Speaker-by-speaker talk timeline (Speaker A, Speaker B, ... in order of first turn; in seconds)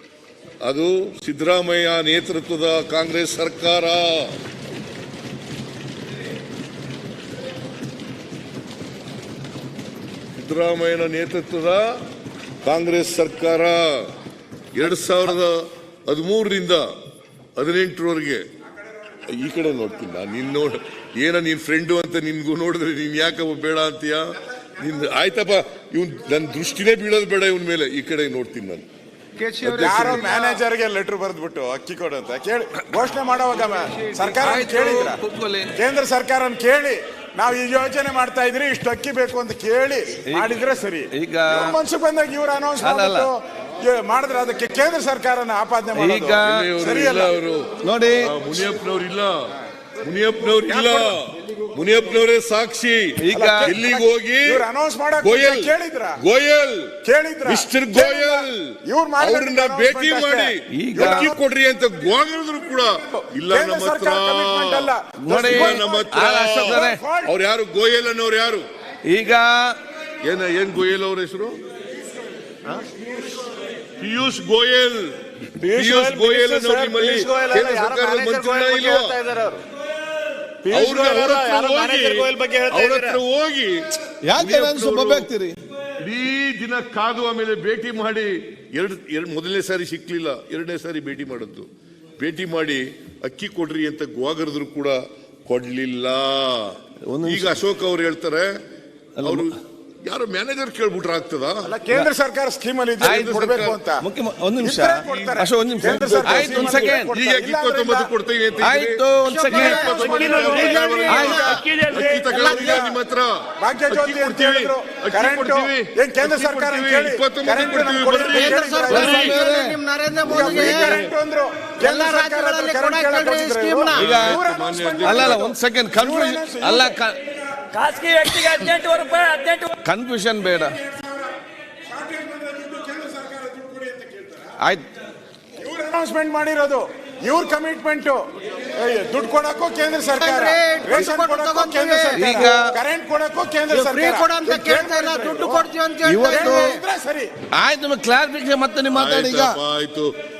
Speaker A: 0.6-4.3, 10.3-12.0, 12.6-14.1, 14.7-16.9, 17.6-18.4, 19.3-28.9, 29.6-30.3, 46.4-47.6, 48.2-54.6, 55.2-68.6, 70.2-71.6, 74.0-79.2, 80.7-85.3, 86.0-98.6, 99.2-99.5, 100.0-101.7, 103.0-103.8, 105.0-119.4, 120.4-121.0, 123.9-125.5, 148.9-150.1
Speaker B: 29.4-29.7, 109.2-111.6, 112.3-112.8, 118.3-121.0, 121.8-124.1, 140.2-142.4, 143.7-146.8
Speaker C: 29.6-35.2, 35.7-47.3, 50.7-51.1, 53.3-56.2, 57.0-61.4, 63.5-67.3, 75.7-77.7, 78.3-78.6, 80.7-83.0, 101.6-104.0, 104.6-108.1, 110.4-112.9, 113.6-119.3, 120.2-127.0, 131.9-134.5, 135.6-145.7, 146.3-147.3
Speaker D: 34.2-35.7, 40.3-40.6, 41.1-41.8, 42.8-43.3, 45.9-46.7, 47.8-48.3, 53.2-53.8, 60.7-61.3, 65.2-67.0, 69.0-69.8, 84.2-85.5, 97.0-97.6, 99.2-99.5, 103.0-103.4, 104.0-107.1, 108.6-109.9, 111.0-111.5, 118.9-120.8, 123.9-124.4, 125.0-127.2, 129.8-130.8, 134.6-134.9, 142.1-142.7, 146.0-146.7, 147.5-149.6
Speaker E: 110.0-110.8, 111.5-112.2, 127.7-129.7